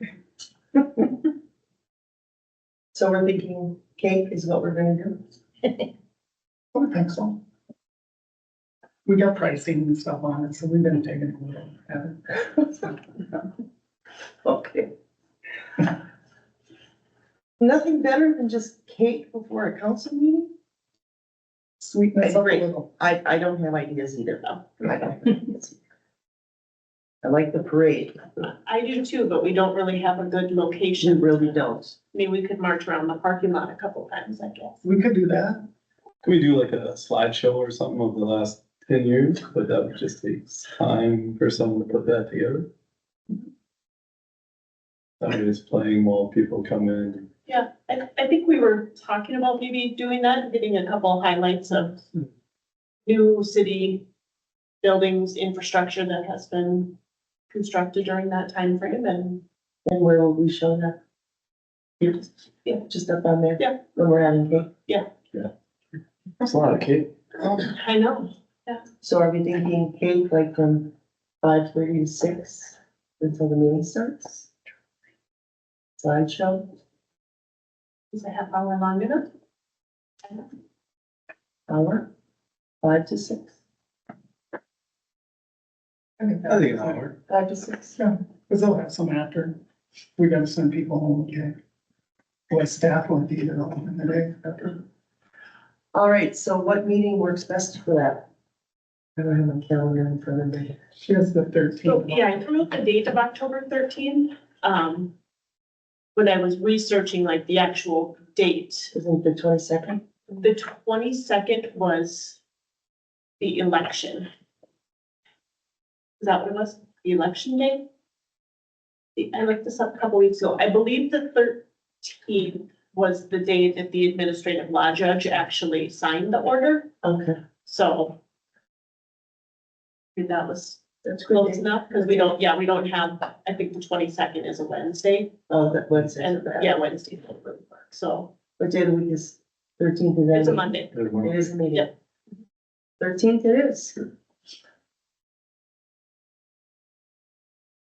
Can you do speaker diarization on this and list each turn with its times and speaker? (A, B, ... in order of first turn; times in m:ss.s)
0:02.9-0:05.7 A
0:06.7-0:07.4 B
0:09.1-0:12.9 B
0:14.4-0:14.9 A
0:17.6-0:20.5 A
0:21.8-0:22.9 B
0:22.2-0:25.8 A
0:27.2-0:28.2 A
0:28.6-0:31.6 C
0:31.0-0:32.0 A
0:32.1-0:34.8 C
0:34.8-0:35.6 B
0:36.2-0:42.7 D
0:45.2-0:47.3 D
0:47.5-0:52.0 C
0:53.1-0:54.0 C
0:54.8-0:57.0 C
0:57.5-0:59.4 C
0:59.8-1:01.0 A
1:02.7-1:04.7 A
1:06.4-1:07.1 D
1:07.6-1:08.8 C
1:09.0-1:14.5 A
1:16.0-1:16.7 A
1:18.1-1:19.3 C
1:21.7-1:22.1 A
1:22.8-1:23.5 A
1:26.2-1:27.0 B
1:26.5-1:27.2 D
1:27.3-1:28.0 A
1:28.0-1:29.6 B
1:30.2-1:31.6 B
1:32.5-1:34.6 B
1:35.9-1:38.3 A
1:39.2-1:40.8 A
1:41.0-1:42.1 B
1:41.9-1:45.2 C
1:46.2-1:48.9 C
1:48.9-1:50.0 A
1:50.3-1:52.4 C
1:53.4-1:54.3 C
1:56.2-1:57.9 C
1:59.2-2:06.9 C
2:07.0-2:07.4 A
2:07.6-2:08.2 C
2:10.2-2:15.3 C
2:11.0-2:12.3 A
2:15.5-2:16.8 A
2:16.2-2:18.3 C
2:18.6-2:21.9 A
2:20.3-2:20.9 C
2:20.9-2:21.5 D
2:23.0-2:24.1 A